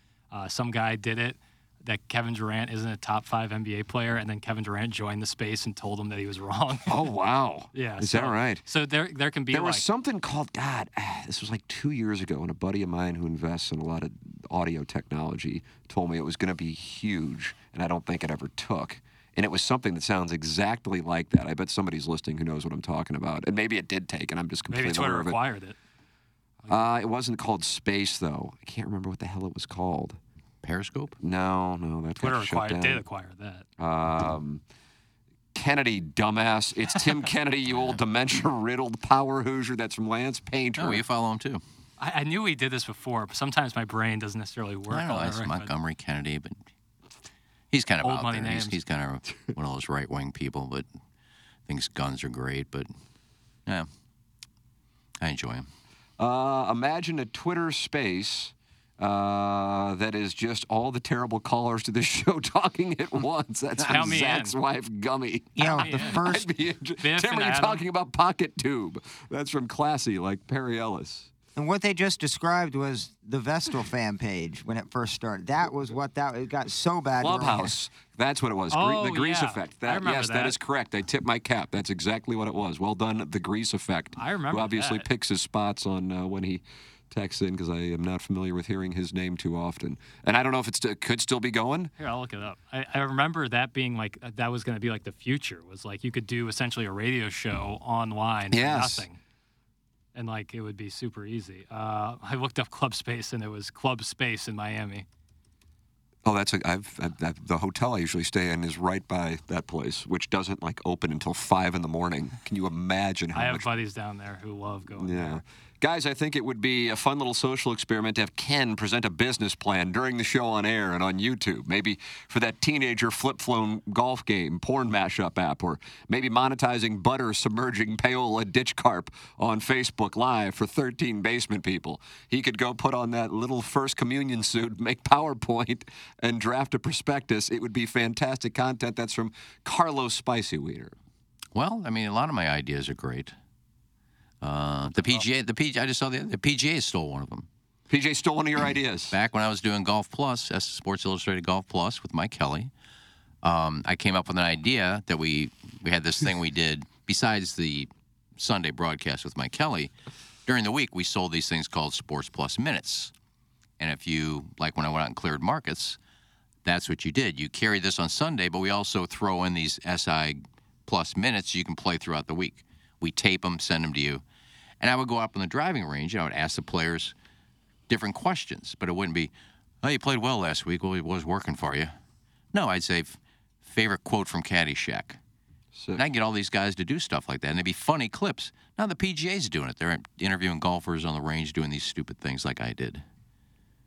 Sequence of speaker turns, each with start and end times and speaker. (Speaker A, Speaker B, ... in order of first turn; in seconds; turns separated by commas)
Speaker A: 0.3-7.0, Speaker B: 6.9-8.6, Speaker A: 7.7-9.8, Speaker B: 9.5-25.4, Speaker A: 24.7-25.8, Speaker B: 26.7-30.2, Speaker C: 30.6-31.2, Speaker B: 31.2-33.0, Speaker A: 32.2-33.7, Speaker B: 33.8-34.6, Speaker B: 35.5-41.0, Speaker C: 40.8-41.6, Speaker A: 42.0-45.7, Speaker C: 44.9-46.6, Speaker C: 47.7-50.9, Speaker A: 48.0-48.8, Speaker C: 51.7-52.9, Speaker C: 55.2-55.7, Speaker B: 56.2-71.3, Speaker A: 63.8-64.5, Speaker D: 65.6-66.5, Speaker A: 65.6-66.2, Speaker A: 67.0-67.8, Speaker D: 71.6-77.7, Speaker B: 77.2-91.9, Speaker A: 78.7-80.6, Speaker A: 84.2-85.1, Speaker A: 92.0-99.2, Speaker B: 98.5-99.1, Speaker A: 100.2-105.1, Speaker B: 106.2-113.7, Speaker A: 113.3-115.4, Speaker B: 115.0-140.9, Speaker C: 141.5-143.3, Speaker C: 144.4-147.5, Speaker B: 147.9-149.2, Speaker C: 149.1-152.7, Speaker C: 153.4-159.9, Speaker C: 160.5-163.1, Speaker C: 163.8-166.0, Speaker C: 166.7-174.2, Speaker C: 174.8-177.1, Speaker C: 177.9-181.9, Speaker C: 182.5-185.2, Speaker B: 185.7-186.1, Speaker C: 185.9-193.0